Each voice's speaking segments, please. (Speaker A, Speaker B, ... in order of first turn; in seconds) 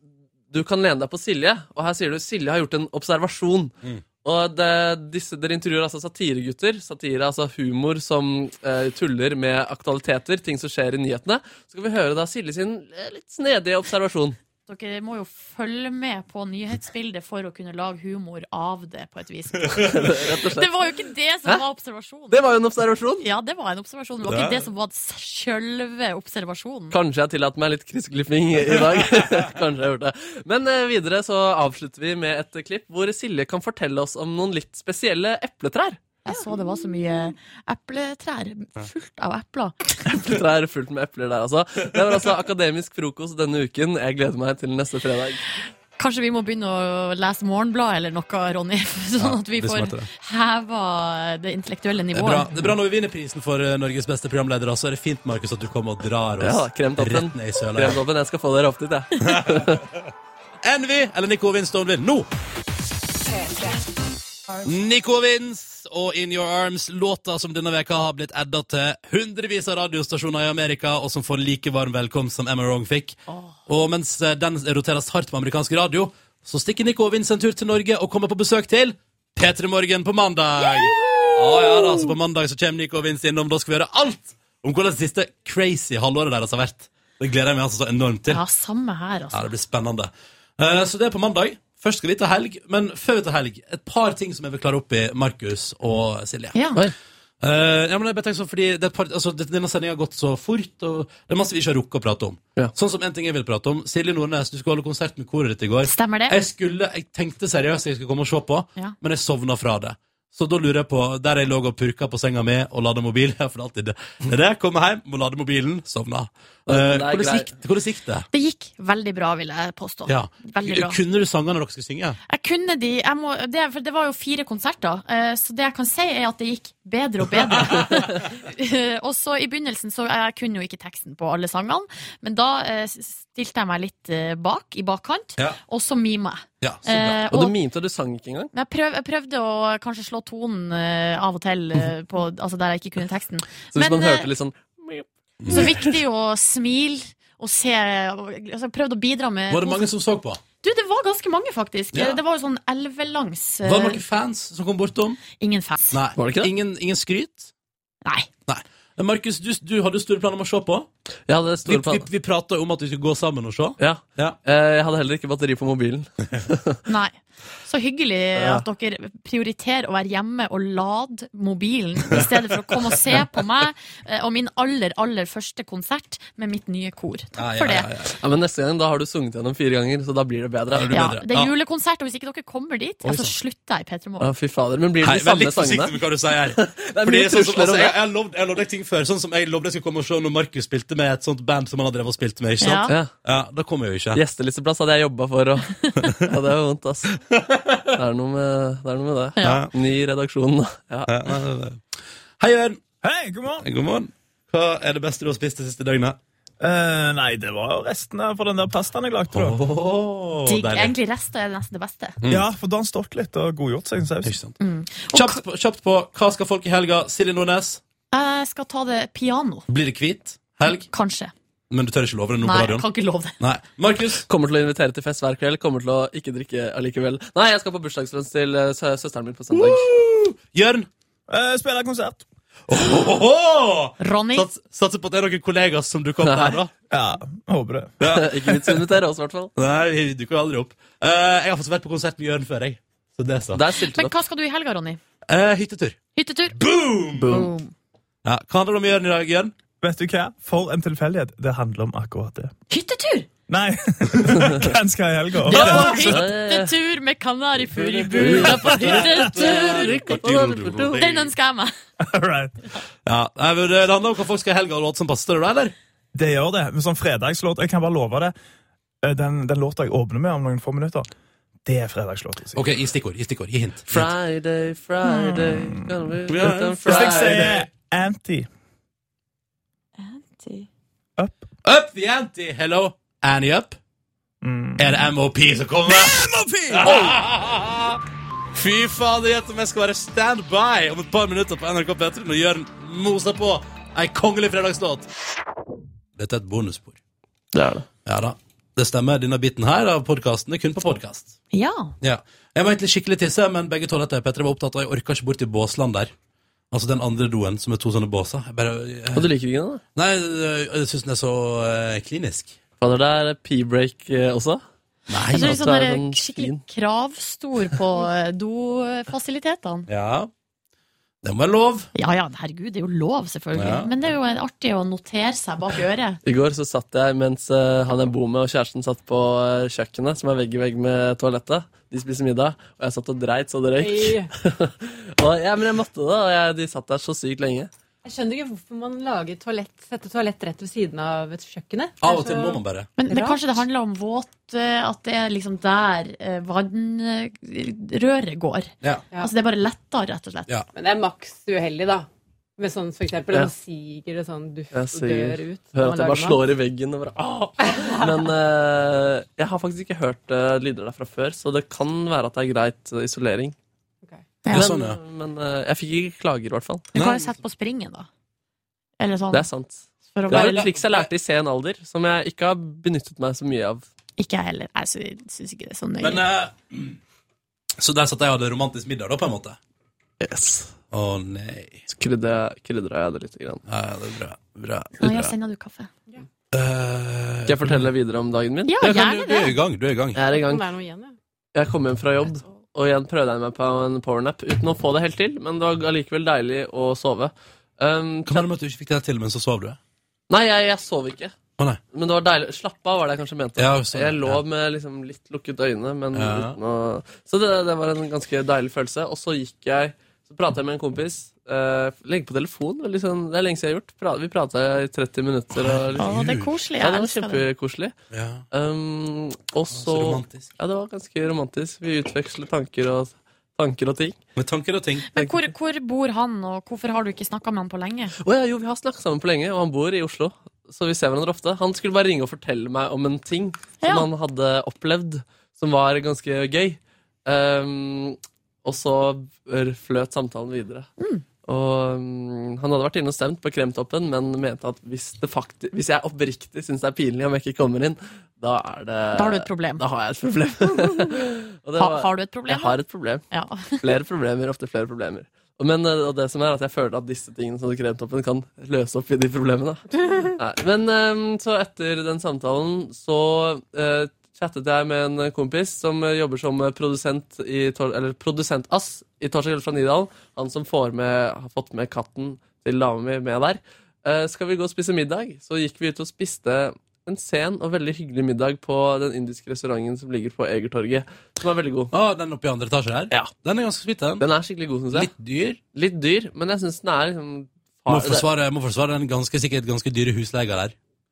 Speaker A: 0.5-14.4, 19.8-20.7, 22.3-23.3, 26.9-36.0, 40.1-45.4, 56.4-59.8, 116.7-117.5, 137.3-138.5, 143.7-145.8, 156.2-156.5, 161.3-162.1, 163.8-166.8, 178.1-181.0, 184.2-186.0, 186.5-187.9, 194.2-197.2, 197.9-201.1, 224.2-229.9, 236.2-236.6, 238.0-239.5, 243.5-244.1, 247.2-247.5, 255.5-256.7, 257.7-261.0, 273.9-277.6, 297.5-297.9, 309.1-309.8, 312.8-314.6, 315.3-316.6, 326.2-337.7, 354.7-363.6, 364.5-366.9, 369.3-373.9, 380.2-380.8, 381.9-383.6, 387.5-388.7, 390.2-390.7, 391.5-398.5, 400.3-401.4, 401.9-416.3, 416.8-417.9, 418.5-424.2, 428.2-440.9, 441.4-481.9, 484.2-485.1, 485.7-488.3
Speaker B: 14.7-22.4, 23.2-27.0, 36.3-40.2, 46.0-52.5, 73.3-73.5, 88.3-89.5, 96.5-96.8, 105.8-106.4, 118.3-121.0, 122.3-137.5, 138.5-144.3, 145.5-149.8, 150.6-154.0, 155.4-156.0, 166.9-177.9, 180.9-184.3, 192.6-192.9, 199.4-199.7, 210.5-212.2, 214.6-215.4, 218.1-219.7, 220.7-221.3, 222.4-223.3, 234.0-234.5, 243.9-245.0, 246.2-246.6, 247.3-247.7, 252.7-253.3, 255.5-259.9, 261.0-261.7, 280.0-280.7, 301.5-301.9, 315.3-319.9, 321.9-326.2, 343.0-350.5, 366.9-368.1, 369.0-369.5, 370.1-371.1, 374.2-376.3, 385.0-385.9, 388.7-389.6, 416.0-417.5, 425.1-428.1, 433.8-434.1, 441.0-441.2, 449.1-449.8, 451.8-453.8
Speaker C: 24.2-24.7, 28.8-29.2, 49.2-50.1, 52.1-58.0, 59.2-59.8, 60.6-62.3, 64.6-88.4, 89.3-96.6, 97.4-118.3, 120.1-122.2, 127.5-128.0, 136.6-137.2, 145.4-145.8, 149.5-150.4, 151.9-152.2, 153.6-155.2, 155.9-157.5, 158.5-160.9, 161.7-164.4, 177.4-178.1, 180.7-181.5, 183.0-183.3, 185.0-194.2, 197.3-197.8, 199.4-199.7, 201.1-201.8, 202.4-202.8, 203.6-206.2, 209.3-210.9, 214.2-214.6, 215.1-217.8, 219.7-220.9, 221.7-222.9, 223.4-224.3, 229.5-230.9, 232.7-236.7, 238.0-238.8, 239.6-243.6, 245.3-246.0, 246.6-247.4, 248.2-249.5, 255.6-256.3, 258.1-261.3, 263.1-265.8, 272.6-274.1, 276.3-277.6, 281.6-283.8, 284.8-288.0, 288.5-295.1, 296.2-297.0, 298.1-301.4, 302.0-306.1, 306.7-309.3, 309.9-312.6, 315.1-315.7, 319.9-320.3, 321.2-321.9, 323.5-323.9, 342.0-342.9, 364.5-365.0, 366.9-367.3, 376.0-377.0, 377.8-379.6, 380.9-381.8, 383.7-385.3, 386.5-387.9, 388.8-390.2, 398.3-399.8, 403.6-404.4, 406.1-406.6, 415.5-416.5, 418.1-418.4, 419.7-420.5, 424.4-425.1, 481.9-484.3, 484.9-485.6, 487.9-490.8
Speaker D: 203.0-203.7, 206.6-209.6, 212.3-214.4, 231.3-232.3, 236.9-238.0, 249.8-252.5, 253.5-255.9, 262.0-262.6, 266.1-268.3, 269.0-271.1, 271.7-272.7, 275.1-278.5, 281.2-281.5, 284.4-285.1, 285.9-287.1
Speaker E: 333.8-334.3, 338.0-343.4, 350.8-356.4, 357.6-358.1, 390.2-391.2